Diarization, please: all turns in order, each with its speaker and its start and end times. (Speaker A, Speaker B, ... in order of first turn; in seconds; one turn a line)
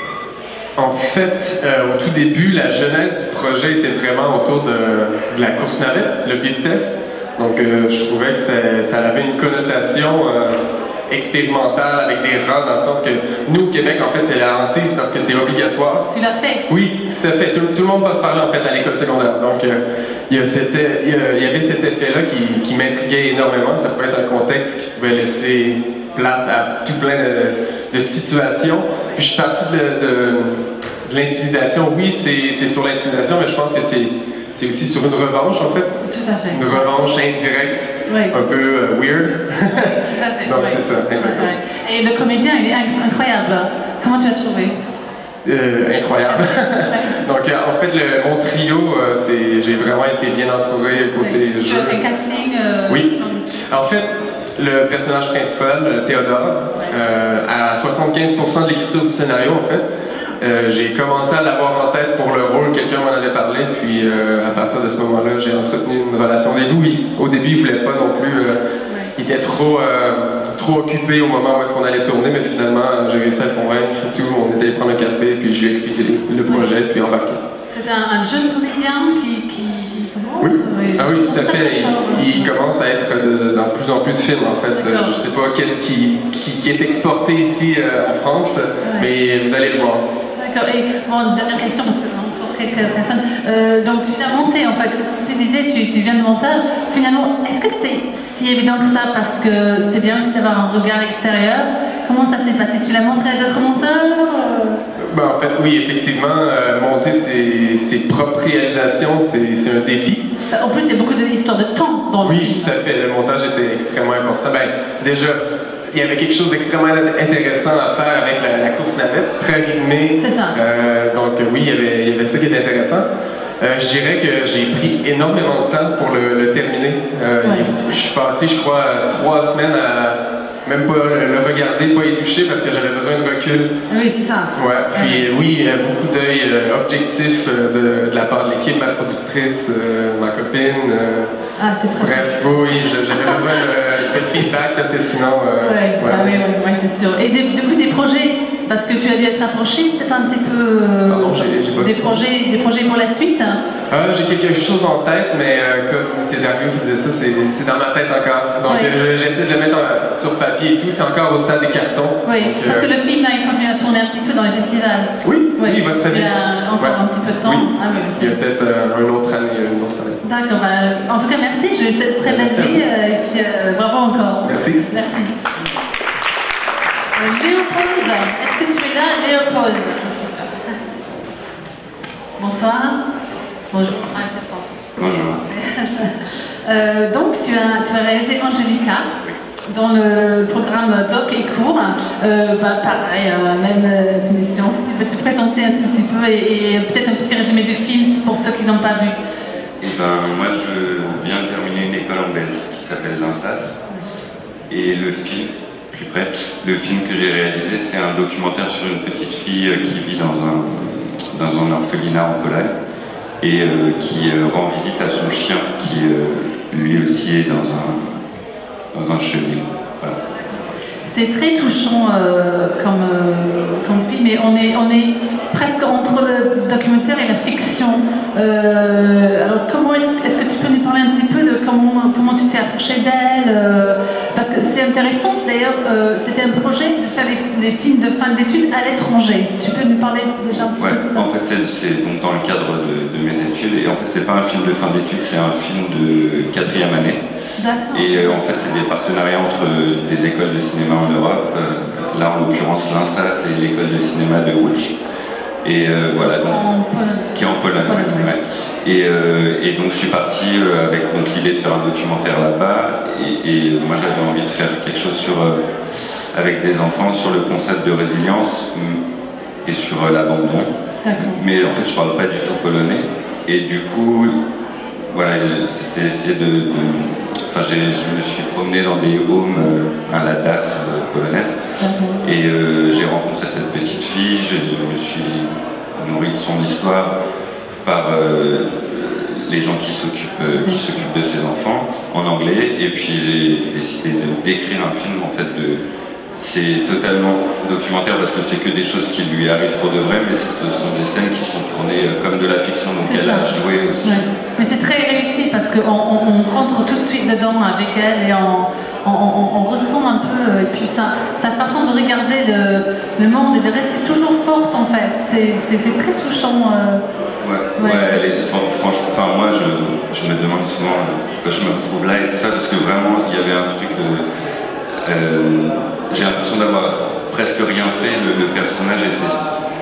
Speaker A: 0.8-16.0
Speaker B: 16.1-16.6
Speaker A: 16.7-35.9
Speaker B: 36.0-36.9
Speaker A: 36.5-39.9
Speaker B: 38.1-38.3
Speaker B: 40.1-44.8
Speaker A: 40.5-41.5
Speaker A: 45.4-52.0
Speaker B: 46.2-47.1
Speaker B: 51.1-53.6
Speaker A: 53.7-59.8
Speaker A: 60.4-68.6
Speaker B: 68.9-69.1
Speaker A: 69.2-77.4
Speaker B: 77.7-82.7
Speaker A: 80.4-90.0
Speaker B: 84.7-85.1
Speaker B: 88.8-89.1
Speaker B: 90.3-104.8
Speaker A: 105.1-110.2
Speaker B: 110.5-112.7
Speaker A: 112.2-123.1
Speaker B: 120.2-120.6
Speaker A: 123.6-133.7
Speaker B: 127.4-127.8
Speaker B: 133.9-135.2
Speaker A: 134.6-141.3
Speaker B: 141.6-143.6
Speaker A: 141.9-146.3
Speaker B: 145.6-153.6
Speaker A: 151.1-152.2
Speaker A: 153.9-162.9
Speaker B: 158.7-158.9
Speaker B: 162.2-168.3
Speaker A: 165.2-166.3
Speaker A: 166.8-167.7
Speaker A: 168.2-170.2
Speaker B: 170.2-175.3
Speaker A: 172.2-172.8
Speaker A: 174.4-174.8
Speaker B: 177.2-180.4
Speaker B: 182.4-183.0
Speaker B: 183.7-184.7
Speaker C: 185.0-185.4
Speaker B: 185.5-189.1
Speaker B: 189.7-199.1
Speaker C: 199.8-203.7
Speaker C: 204.7-212.7
Speaker C: 213.4-218.0
Speaker C: 218.9-220.1
Speaker B: 221.1-241.3
Speaker C: 240.5-247.2
Speaker B: 247.6-248.4
Speaker C: 247.9-254.9
Speaker C: 255.6-256.6
Speaker B: 256.2-258.3
Speaker C: 257.3-265.6
Speaker C: 266.3-269.0
Speaker C: 269.6-270.7
Speaker B: 271.0-271.4
Speaker C: 271.2-274.3
Speaker C: 275.1-281.5
Speaker B: 281.8-282.3
Speaker C: 282.2-287.1
Speaker C: 287.8-295.8
Speaker B: 290.4-291.1
Speaker C: 296.4-304.2
Speaker B: 303.0-317.0
Speaker C: 317.4-324.2
Speaker B: 317.8-318.2
Speaker C: 325.1-329.4